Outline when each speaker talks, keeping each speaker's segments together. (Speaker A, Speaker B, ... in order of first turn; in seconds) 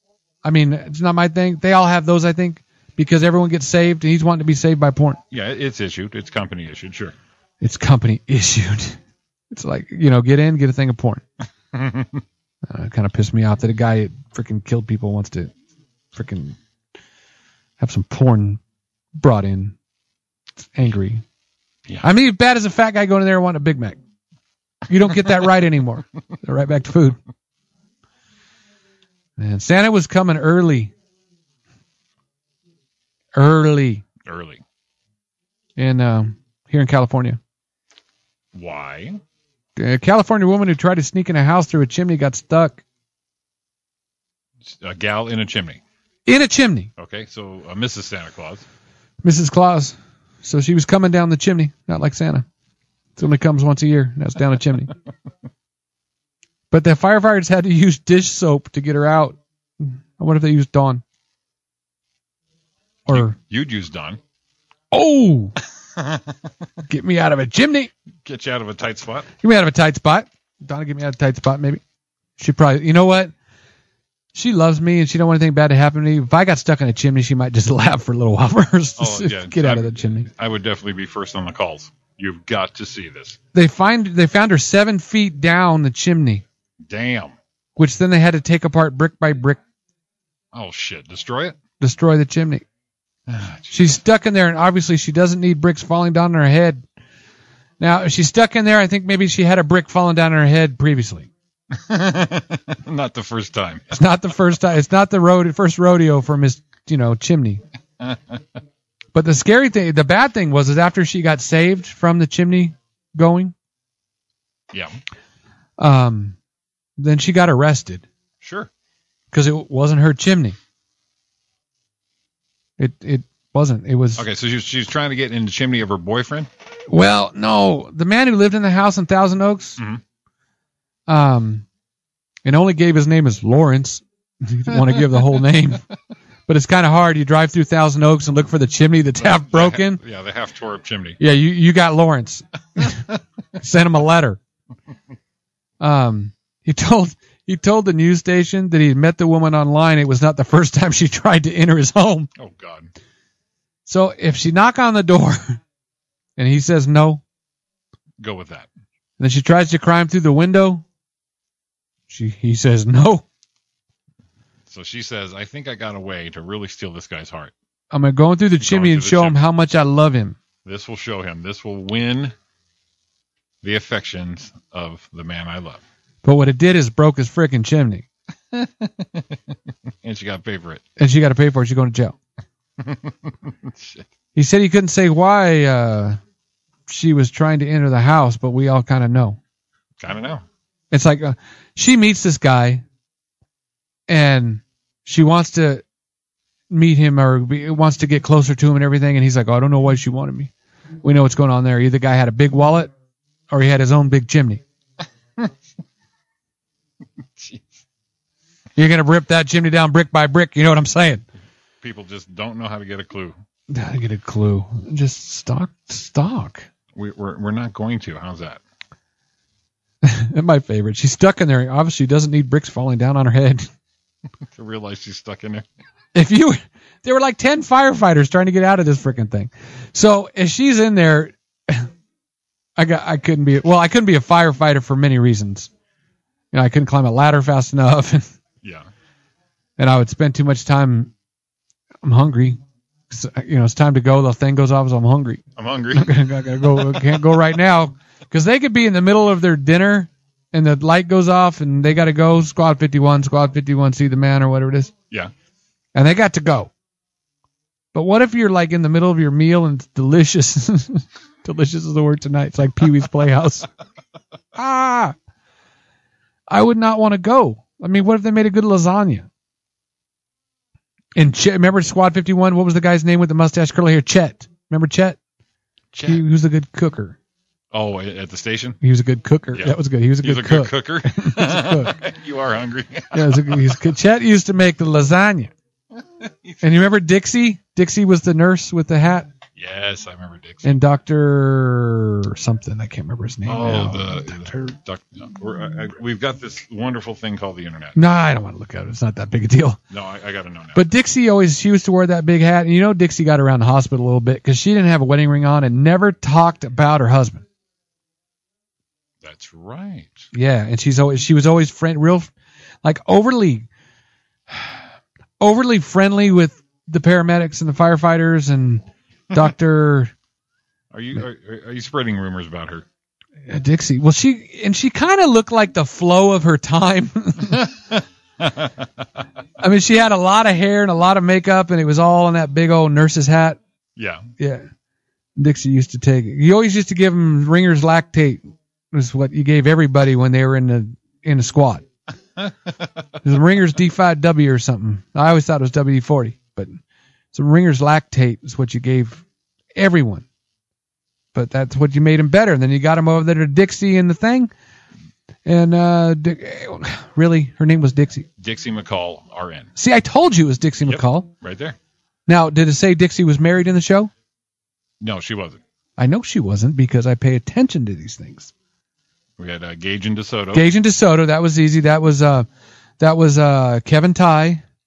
Speaker A: 0.4-5.2, 7.6-9.0, 9.5-11.2, 12.6-15.5, 16.1-16.6, 17.8-18.6, 19.2-19.7, 20.7-21.2, 22.0-24.0, 24.9-27.2, 29.4-30.9, 33.3-34.0, 35.8-37.4, 39.8-42.8, 46.2-46.9, 49.2-52.5, 53.2-54.9, 56.7-61.0, 63.1-63.3, 64.9-65.5, 66.9-67.9, 69.4-71.8, 72.4-73.3, 74.3-80.3, 83.5-86.4, 87.8-89.6, 91.8-92.6, 93.7-96.8, 97.8-101.3, 103.9-107.6, 109.1-113.5, 115.8-116.3, 117.0-118.0, 119.3-120.6, 122.8-124.2, 126.9-129.8, 131.1-131.6, 132.4-135.8, 136.5-140.0, 141.2-143.1, 143.6-144.4, 145.8-152.3, 153.9-155.6, 156.4-157.2, 159.2-160.8, 162.1-163.2, 167.9-170.4, 176.2-178.1, 181.0-182.2, 184.3-186.2, 186.9-189.4, 190.9-192.8, 194.1-195.8, 196.7-200.5, 201.0-202.9, 203.5-204.6, 208.8-211.2, 213.7-216.7, 220.0-223.7, 226.1-231.9, 232.8-235.7, 236.5-238.3, 239.8-241.1, 242.0-242.6, 243.1-245.4, 245.9-254.9, 255.9-256.7, 257.9-263.7, 264.5-265.1, 266.5-269.3, 271.1-275.2, 276.1-277.2, 278.8-281.9, 283.1-285.5, 286.6-289.3, 290.6-294.7, 297.9-299.8, 300.7-307.4, 310.3-312.3, 312.8-313.7, 315.4-320.1, 323.5-327.6, 329.6-333.6, 334.4-334.6, 335.4-341.9, 343.2-346.8, 347.3-349.2, 349.7-350.2, 351.3-354.5, 355.4-358.3, 359.8-361.3, 362.3-364.1, 366.0-368.5, 370.5-372.5, 373.0-374.6
Speaker B: 5.3-7.1, 11.7-12.2, 34.2-34.6, 38.5-39.2, 44.6-45.8, 47.0-48.6, 63.1-64.2, 66.0-66.4, 68.2-69.3, 79.0-83.4, 86.8-87.3, 90.5-91.6, 93.3-93.8, 101.7-103.9, 108.0-108.4, 118.4-118.7, 124.2-126.5, 139.2-141.2, 152.4-152.9, 158.2-158.7, 164.7-167.5, 168.6-169.4, 170.6-172.3, 173.6-175.8, 178.5-179.4, 180.0-180.8, 182.8-184.1, 190.0-190.4, 207.3-207.7, 211.8-213.4, 216.9-218.6, 224.5-225.7, 245.6-247.1, 275.9-276.2, 277.7-278.8, 279.5-283.8, 285.9-286.8, 289.6-290.8, 293.4-298.0, 299.9-300.8, 309.2-310.3, 320.9-322.8, 327.5-329.0, 334.0-334.2, 342.4-342.9, 358.4-359.7, 360.8-361.8, 365.0-365.6, 369.4-370.7